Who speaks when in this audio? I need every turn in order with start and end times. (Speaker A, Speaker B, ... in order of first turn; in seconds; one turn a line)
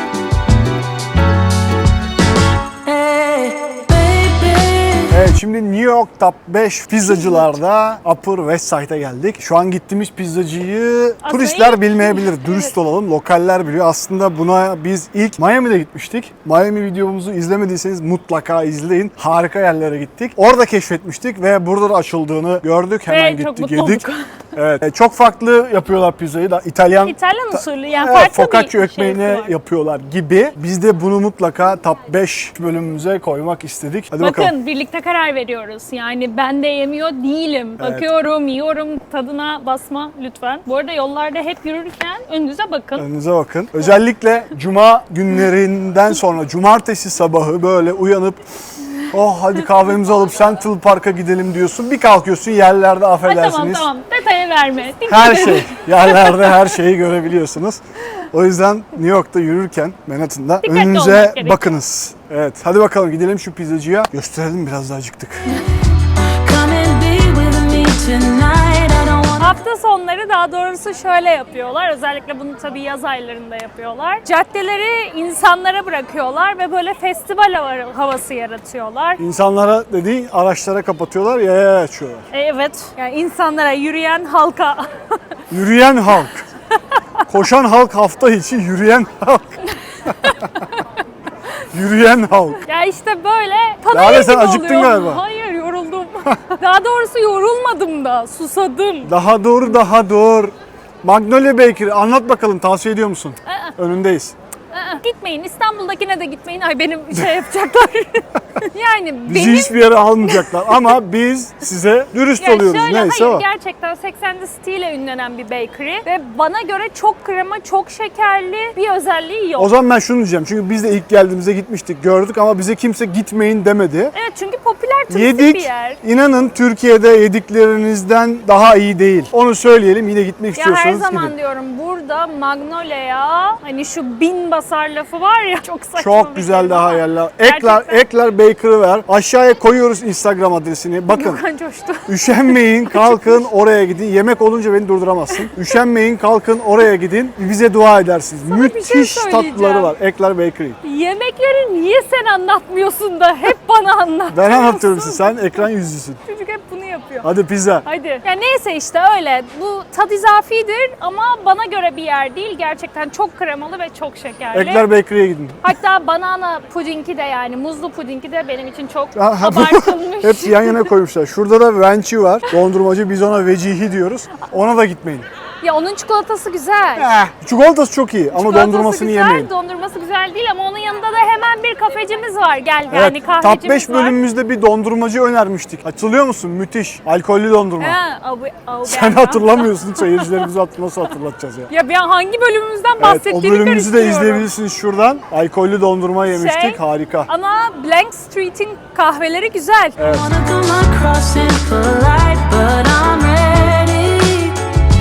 Speaker A: 2.9-5.2
Speaker B: 5.1-34.5
Speaker C: 7.1-7.5
Speaker C: 11.2-12.7
Speaker C: 23.1-24.3
Speaker C: 27.0-29.5
Speaker C: 34.2-43.1
Speaker B: 37.8-38.1
Speaker B: 43.0-48.5
Speaker B: 49.0-53.9
Speaker C: 53.2-56.7
Speaker B: 55.1-65.6
Speaker C: 60.6-61.7
Speaker A: 66.4-69.6
Speaker C: 69.4-79.2
Speaker B: 79.2-82.3
Speaker C: 82.3-85.0
Speaker B: 85.5-86.5
Speaker C: 87.0-87.2
Speaker B: 87.3-90.5
Speaker C: 90.0-90.8
Speaker B: 91.7-92.6
Speaker C: 92.6-99.1
Speaker B: 93.9-95.2
Speaker B: 99.0-104.3
Speaker C: 103.5-103.7
Speaker C: 104.7-110.8
Speaker B: 109.3-113.5
Speaker C: 112.4-119.7
Speaker B: 119.6-124.1
Speaker C: 124.1-126.0
Speaker B: 125.1-131.3
Speaker C: 130.6-138.1
Speaker B: 136.0-141.4
Speaker C: 141.1-143.4
Speaker B: 142.1-150.8
Speaker C: 148.5-149.9
Speaker C: 150.8-155.6
Speaker B: 154.3-156.2
Speaker C: 156.2-157.3
Speaker B: 157.2-157.8
Speaker C: 157.8-164.9
Speaker B: 164.5-165.7
Speaker C: 165.6-170.9
Speaker B: 169.2-175.3
Speaker C: 175.6-177.1
Speaker B: 177.0-179.5
Speaker C: 178.3-184.2
Speaker B: 182.9-188.0
Speaker C: 187.8-190.5
Speaker B: 188.8-191.7
Speaker C: 191.7-194.5
Speaker B: 193.0-197.3
Speaker C: 196.3-200.0
Speaker B: 200.0-200.3
Speaker A: 200.0-204.7